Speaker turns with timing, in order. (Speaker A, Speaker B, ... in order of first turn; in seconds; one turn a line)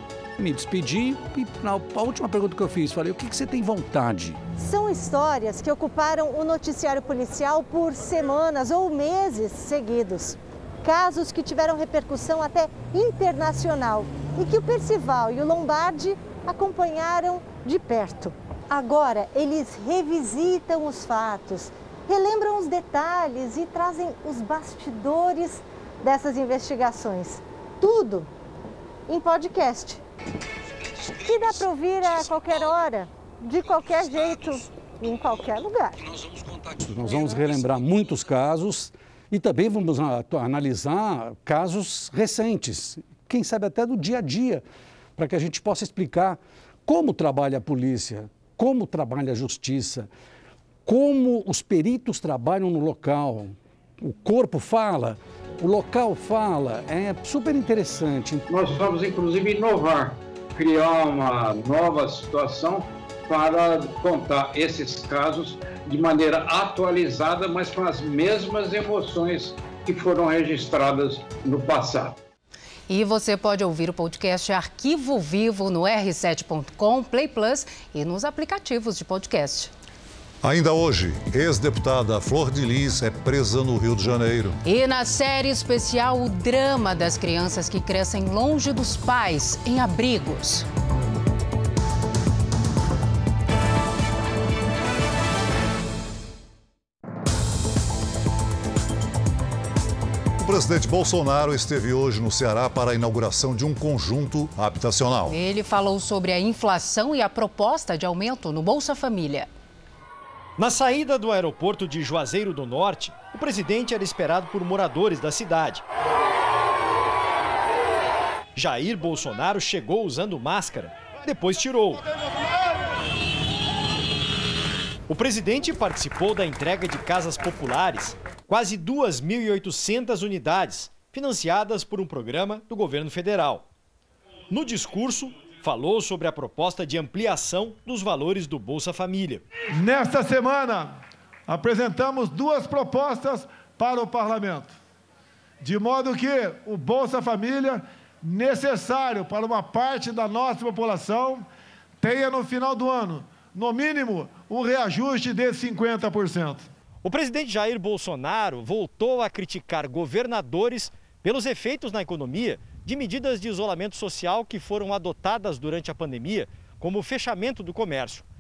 Speaker A: 0.4-4.4
Speaker B: 4.6-28.3
Speaker B: 29.1-30.0
Speaker B: 31.0-36.0
Speaker A: 36.3-44.6
Speaker A: 45.2-50.1
Speaker A: 50.9-58.5
Speaker C: 58.5-72.2
Speaker D: 72.9-79.7
Speaker E: 80.4-84.6
Speaker D: 84.6-90.7
Speaker E: 100.4-105.3
Speaker D: 105.3-109.5
Speaker F: 110.6-115.8
Speaker F: 118.5-122.0
Speaker F: 125.1-133.7
Speaker F: 134.5-139.4
Speaker G: 139.7-140.9
Speaker G: 141.5-144.7
Speaker G: 145.6-151.5
Speaker G: 152.0-156.7
Speaker F: 157.0-168.2